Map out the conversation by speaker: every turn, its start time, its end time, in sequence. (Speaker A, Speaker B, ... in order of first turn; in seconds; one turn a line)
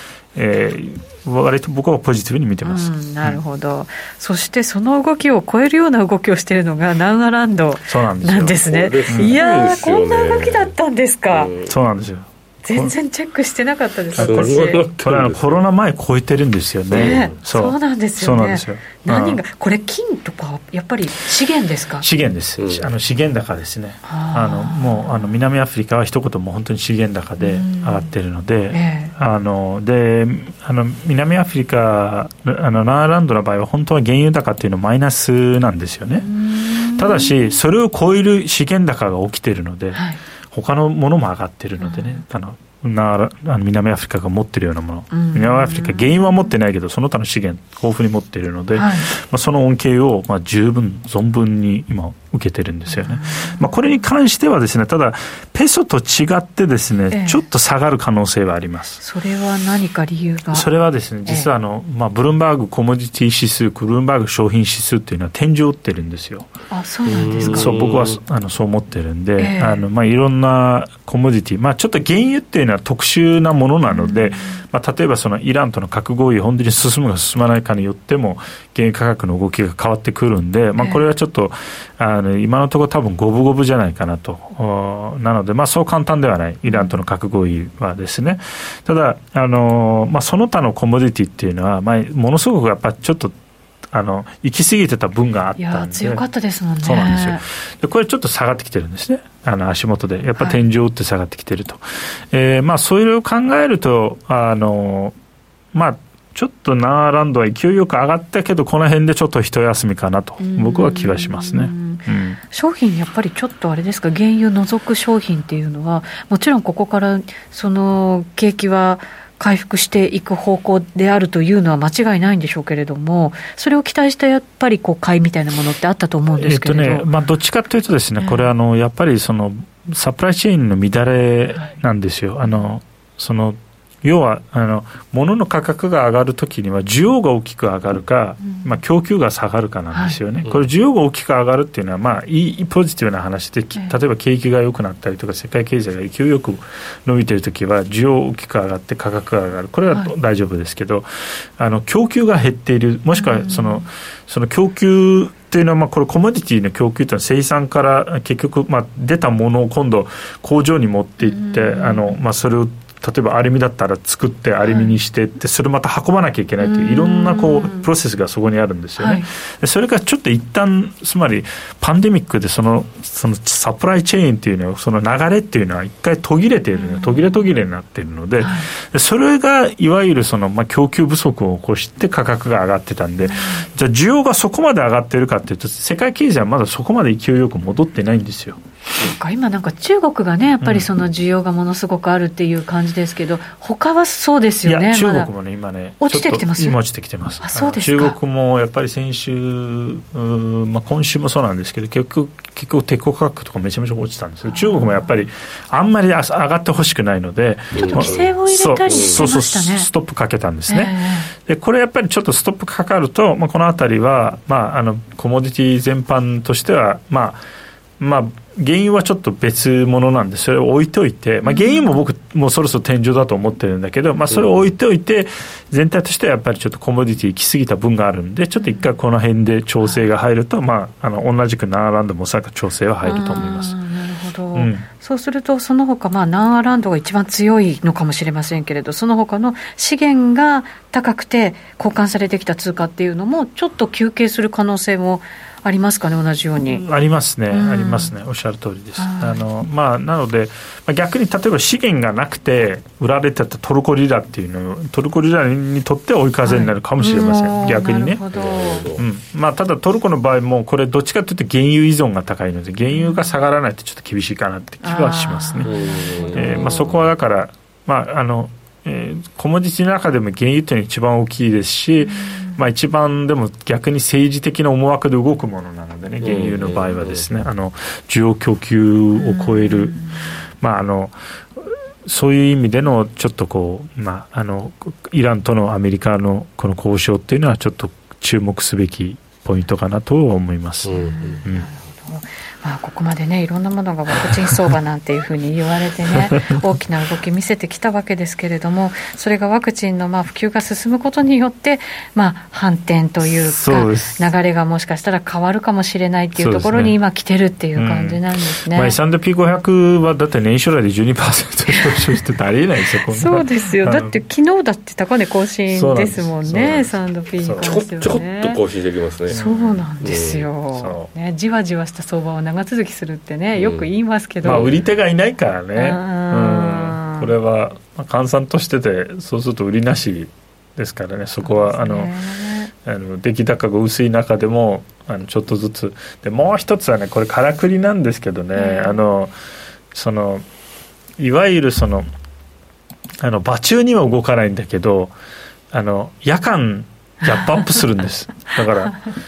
Speaker A: 0.3-3.4
Speaker B: 2.6-11.5
Speaker A: 7.9-9.4
Speaker C: 8.6-10.7
Speaker C: 11.3-11.7
Speaker A: 11.7-12.9
Speaker B: 12.6-14.8
Speaker C: 14.2-15.4
Speaker A: 14.2-19.4
Speaker C: 16.9-17.4
Speaker B: 16.9-22.1
Speaker A: 22.0-36.3
Speaker C: 22.6-22.9
Speaker B: 24.1-25.3
Speaker B: 27.4-28.1
Speaker B: 28.7-29.1
Speaker B: 36.2-37.6
Speaker A: 36.9-59.0
Speaker B: 41.8-42.2
Speaker B: 45.1-46.1
Speaker B: 48.8-49.1
Speaker B: 52.9-53.8
Speaker B: 57.1-57.4
Speaker B: 59.0-60.7
Speaker A: 60.5-66.5
Speaker B: 66.7-67.8
Speaker C: 67.1-68.2
Speaker A: 67.4-93.3
Speaker B: 69.4-69.8
Speaker B: 73.9-74.6
Speaker B: 80.8-81.0
Speaker B: 86.7-86.9
Speaker A: 93.9-96.2
Speaker B: 95.6-97.4
Speaker A: 96.8-105.2
Speaker A: 105.7-112.4
Speaker B: 110.4-127.1
Speaker A: 126.3-188.6
Speaker B: 128.2-128.5
Speaker B: 138.4-138.7
Speaker B: 139.9-140.2
Speaker B: 153.2-153.9
Speaker B: 161.2-162.2
Speaker B: 164.7-164.9
Speaker B: 166.6-167.9
Speaker B: 169.0-169.3
Speaker B: 176.8-177.2
Speaker B: 178.4-178.7
Speaker B: 183.2-183.7
Speaker B: 188.9-195.3
Speaker A: 190.6-190.9
Speaker A: 194.7-217.4
Speaker B: 196.0-196.8
Speaker B: 197.4-198.2
Speaker B: 204.5-205.1
Speaker C: 207.8-208.3
Speaker B: 207.8-209.9
Speaker C: 208.9-209.2
Speaker B: 210.7-211.3
Speaker A: 218.0-233.8
Speaker B: 221.5-222.0
Speaker C: 224.3-224.6
Speaker B: 233.1-246.8
Speaker A: 234.6-234.8
Speaker A: 246.7-258.2
Speaker B: 247.5-248.1
Speaker B: 249.0-249.4
Speaker B: 256.4-258.9
Speaker C: 258.3-259.0
Speaker A: 258.8-265.7
Speaker B: 262.9-263.3
Speaker B: 264.8-266.9
Speaker C: 265.6-267.1
Speaker A: 266.3-280.0
Speaker B: 272.2-272.6
Speaker C: 276.2-277.2
Speaker B: 279.1-280.2
Speaker A: 280.6-291.7
Speaker C: 290.9-291.4
Speaker B: 290.9-309.0
Speaker A: 303.2-304.3
Speaker A: 306.4-307.0
Speaker A: 307.8-314.1
Speaker B: 313.1-318.6
Speaker A: 315.7-317.8
Speaker C: 317.6-319.4
Speaker A: 319.3-319.9
Speaker B: 319.3-324.7
Speaker C: 320.0-320.5
Speaker A: 320.7-321.1
Speaker C: 323.6-323.9
Speaker C: 324.4-324.8
Speaker A: 324.4-332.1
Speaker B: 325.8-327.3
Speaker B: 331.4-332.7
Speaker A: 332.8-339.3
Speaker B: 338.5-339.0
Speaker A: 339.9-340.4
Speaker A: 341.2-342.1
Speaker A: 343.2-345.1
Speaker A: 345.7-349.0